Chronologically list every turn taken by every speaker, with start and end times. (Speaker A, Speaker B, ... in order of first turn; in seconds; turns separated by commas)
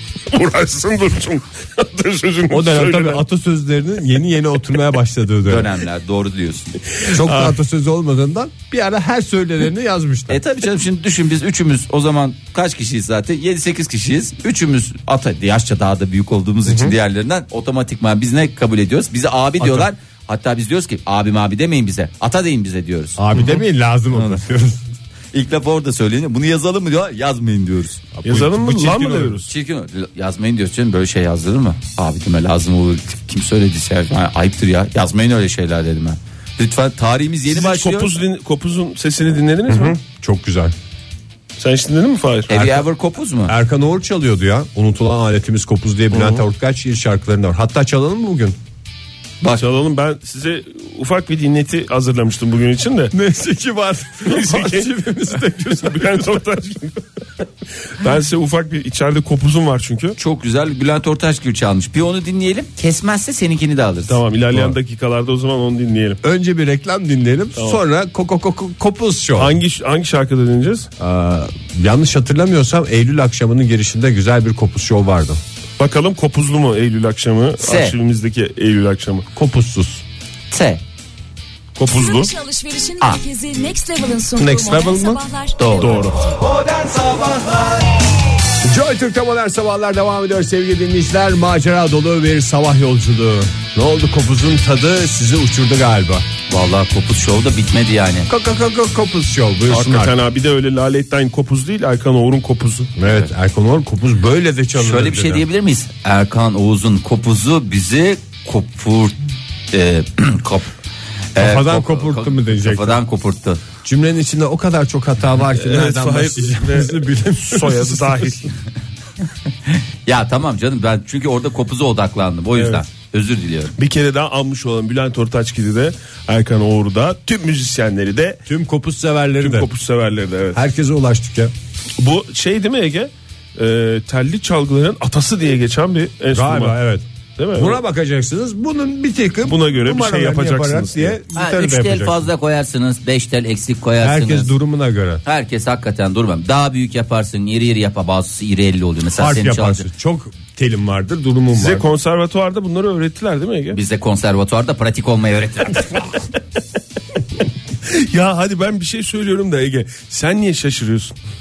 Speaker A: 0.3-3.2, Speaker B: 2.5-5.8, Speaker C: 5.5-6.8, Speaker B: 7.1-10.4, Speaker A: 7.2-7.5, Speaker C: 10.3-23.2, Speaker B: 16.6-16.9, Speaker B: 19.6-19.9, Speaker B: 23.2-24.8, Speaker C: 24.1-24.4, Speaker C: 25.3-28.0, Speaker B: 28.1-29.4, Speaker A: 28.2-29.5, Speaker C: 29.5-38.1, Speaker A: 37.5-40.0, Speaker B: 39.7-40.7, Speaker A: 41.6-42.6, Speaker C: 42.5-43.5, Speaker B: 43.5-48.6, Speaker A: 46.1-46.4, Speaker A: 49.5-53.1, Speaker B: 53.1-56.2, Speaker A: 54.3-54.9, Speaker A: 55.8-57.0, Speaker A: 58.0-60.2, Speaker C: 60.2-64.2, Speaker A: 64.1-66.2, Speaker B: 66.2-69.5, Speaker A: 69.4-70.9, Speaker B: 71.0-75.4, Speaker A: 75.8-79.2, Speaker C: 77.6-77.9, Speaker B: 79.3-80.0, Speaker C: 80.5-80.8, Speaker A: 81.8-82.3, Speaker D: 81.8-86.4, Speaker B: 84.4-85.2, Speaker C: 85.6-85.9, Speaker A: 85.8-86.2, Speaker B: 88.6-96.2, Speaker C: 96.5-98.3, Speaker B: 98.3-100.1, Speaker A: 99.7-102.9, Speaker B: 103.0-105.4, Speaker C: 104.7-109.2, Speaker C: 109.7-110.7, Speaker C: 111.3-113.6, Speaker B: 111.4-113.0, Speaker B: 113.8-118.4, Speaker A: 115.5-118.5, Speaker C: 120.0-123.7, Speaker A: 122.5-122.8, Speaker A: 123.8-128.4, Speaker B: 128.5-129.7, Speaker A: 129.4-130.6, Speaker B: 130.5-131.5, Speaker A: 132.0-136.7, Speaker B: 136.3-142.3, Speaker A: 137.4-137.8, Speaker A: 139.4-141.2, Speaker C: 141.3-144.5, Speaker B: 144.0-145.2, Speaker C: 145.2-149.8, Speaker B: 149.1-151.8, Speaker A: 151.5-153.8, Speaker C: 153.7-155.9, Speaker A: 157.8-161.2